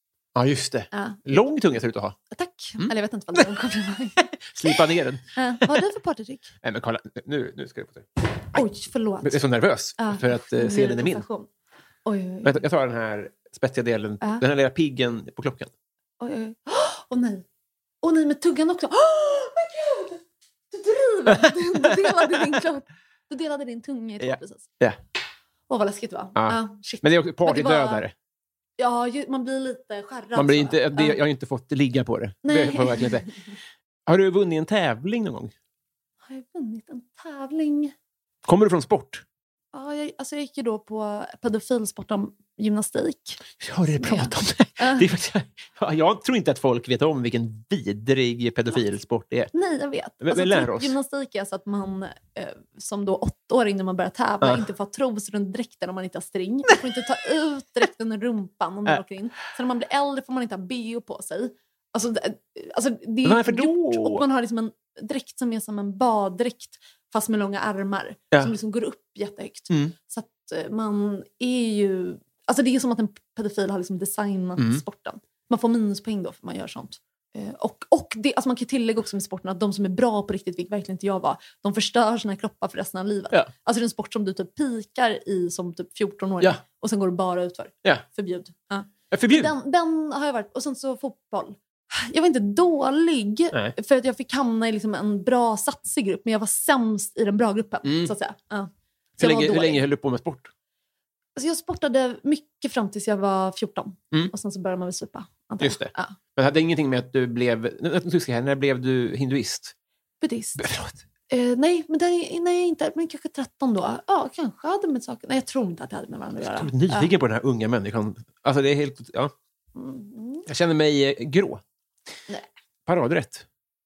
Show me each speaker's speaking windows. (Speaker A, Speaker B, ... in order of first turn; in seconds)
Speaker A: 0.3-2.2, 4.5-5.7, 6.6-8.6, 9.2-11.2, 12.4-15.7, 21.3-22.6, 24.2-25.0, 26.4-28.1, 30.4-33.3, 34.1-35.5, 38.5-39.2, 43.6-49.5, 50.2-51.0, 63.2-64.2, 74.6-74.8, 89.1-89.5, 97.8-98.1, 99.2-100.5, 105.6-109.7, 110.6-111.0, 116.4-119.3, 120.5-121.6, 122.9-123.5
Speaker B: 0.9-1.2, 2.3-4.3, 5.4-6.5, 8.5-9.4, 9.9-11.5, 12.1-12.6, 16.2-17.4, 18.0-24.7, 25.7-28.0, 28.8-31.2, 32.5-33.3, 36.2-37.9, 39.7-43.4, 44.0-45.1, 49.5-99.8, 101.4-106.2, 110.2-110.7, 111.3-117.1, 119.8-120.5